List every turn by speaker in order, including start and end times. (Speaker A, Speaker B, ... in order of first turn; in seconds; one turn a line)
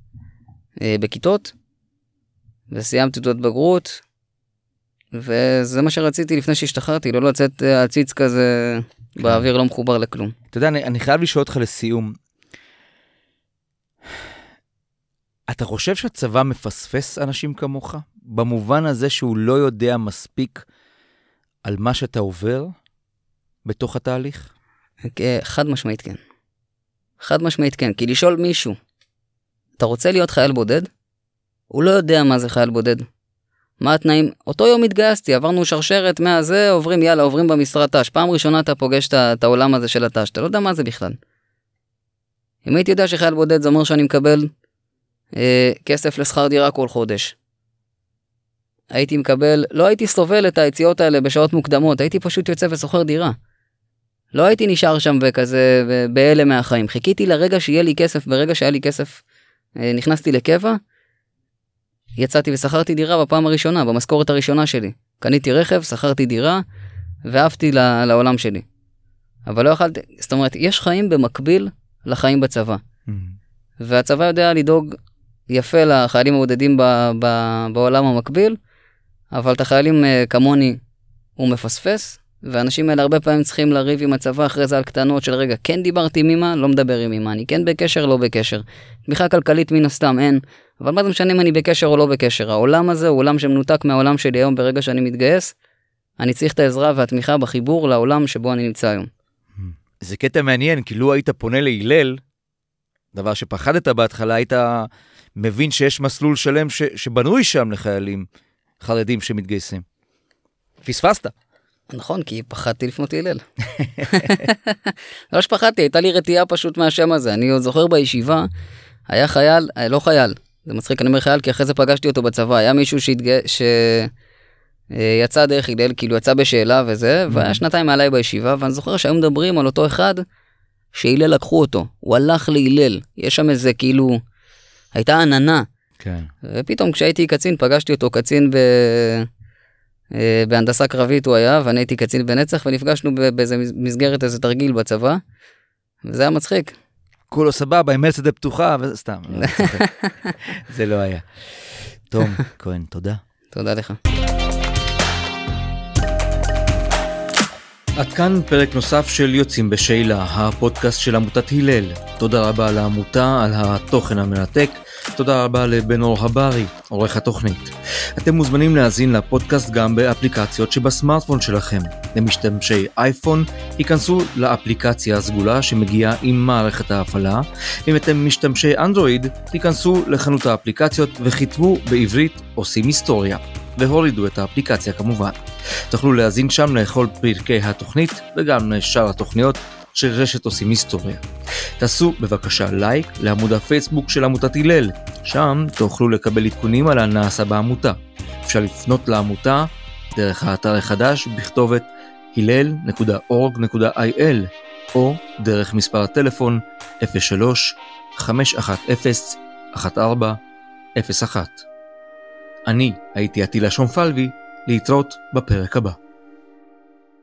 Speaker A: 0.8-1.5
Speaker A: 2.7-4.0
Speaker A: 5.1-10.3
Speaker B: 9.2-9.5
Speaker B: 10.5-12.2
Speaker B: 15.5-20.7
Speaker B: 21.6-22.8
Speaker B: 23.6-24.5
Speaker A: 25.0-26.2
Speaker A: 27.2-28.8
Speaker A: 29.8-30.9
Speaker A: 31.7-33.1
Speaker A: 33.8-41.2
Speaker A: 42.6-44.5
Speaker A: 45.3-47.4
Speaker A: 48.9-53.4
Speaker A: 54.3-59.2
Speaker A: 59.8-60.8
Speaker A: 62.2-66.6
Speaker A: 67.3-68.7
Speaker A: 69.5-72.8
Speaker B: 73.1-73.4
Speaker A: 73.8-75.0
Speaker A: 75.5-78.6
Speaker A: 79.3-80.8
Speaker A: 81.4-95.5
Speaker A: 96.2-99.1
Speaker B: 99.6-102.2
Speaker B: 103.1-108.3
Speaker B: 108.8-109.8
Speaker B: 110.8-111.3
Speaker A: 111.9-113.4
Speaker B: 113.8-114.5
Speaker A: 114.0-118.5
Speaker A: 119.1-124.1
Speaker A: 124.9-130.2
Speaker B: 127.3-127.6
Speaker A: 130.9-134.2
Speaker A: 134.9-135.7
Speaker B: 136.0-136.3
Speaker A: 136.4-139.3
Speaker A: 140.1-145.2
Speaker A: 146.0-146.8
Speaker B: 147.3-149.8
Speaker A: 149.4-150.3
Speaker B: 150.5-151.3
Speaker B: 152.1-153.2
Speaker A: 153.5-154.0
Speaker B: 158.0-185.4
Speaker B: 185.9-191.2
Speaker B: 191.8-210.4
Speaker B: 211.0-211.7
Speaker B: 212.7-216.0